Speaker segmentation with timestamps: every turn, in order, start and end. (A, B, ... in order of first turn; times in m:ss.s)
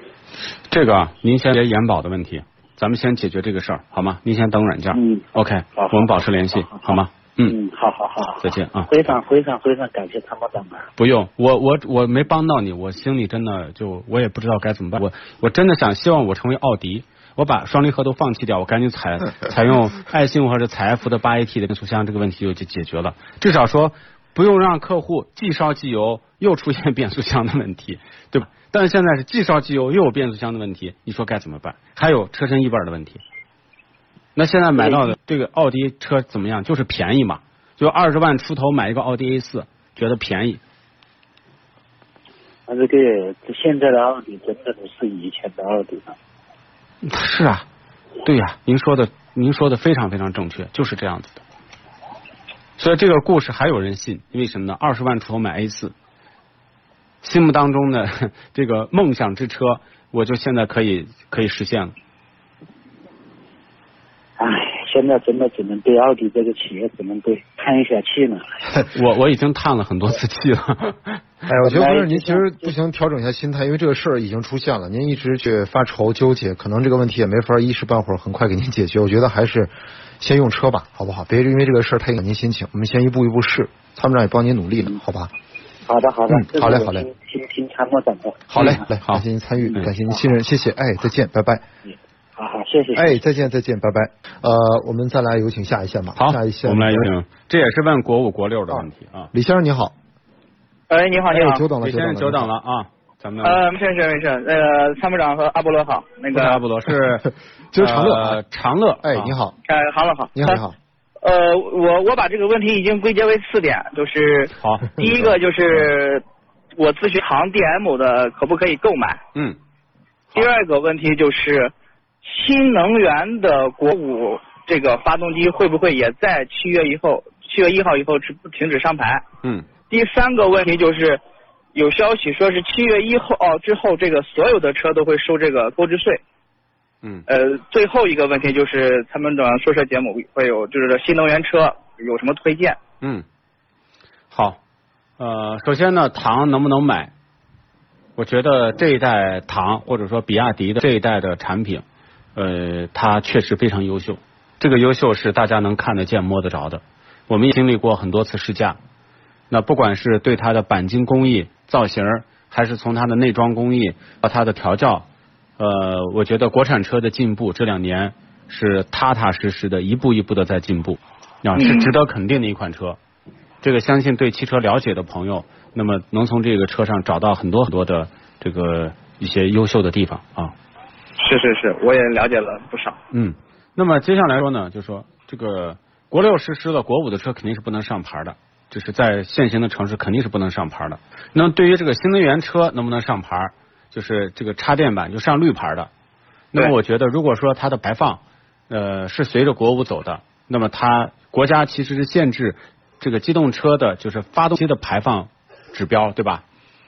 0:00.7-0:07.6 A
0:04.9-0:10.9 B
0:08.4-0:09.2 A
0:11.0-0:33.2 A
0:34.4-0:40.6 A
0:34.8-0:35.1 B
0:42.7-0:46.2 B
0:47.0-0:47.7 A
0:48.2-0:51.4 A
0:52.8-0:55.9 A
0:57.2-1:02.0 A
1:04.4-1:08.6 B
1:08.9-1:11.2 A
1:11.5-1:25.3 C
1:11.6-1:12.7 B
1:25.9-1:28.8 B
1:26.3-1:27.1 C
1:28.5-1:31.6 C
1:28.6-1:29.2 A
1:29.6-1:30.2 B
1:31.9-1:33.2 B
1:33.0-1:37.1 C
1:36.2-1:39.3 A
1:38.7-1:39.9 C
1:40.9-1:41.7 D
1:41.3-1:42.5 C
1:41.8-1:43.6 A
1:43.4-1:46.6 D
1:46.3-1:49.4 A
1:47.7-1:48.4 C
1:49.0-1:49.6 C
1:49.7-1:50.6 D
1:50.4-1:50.8 C
1:51.2-1:56.2 D
1:54.6-1:55.1 A
1:56.8-1:59.2 D
2:00.3-2:09.2 D
2:09.4-2:09.7 A
2:09.9-2:11.2 D
2:11.7-2:16.2 D
2:17.3-2:22.8 D
2:24.3-2:24.6 A
2:25.2-2:27.1 A
2:28.2-2:31.8 A
2:32.4-2:38.8 A
2:39.5-2:45.1 A
2:45.6-2:53.0 A
2:51.6-2:51.9 D
2:53.6-3:00.5 A
3:01.2-3:03.0 D
3:03.1-3:15.9 A
3:16.5-3:26.4 A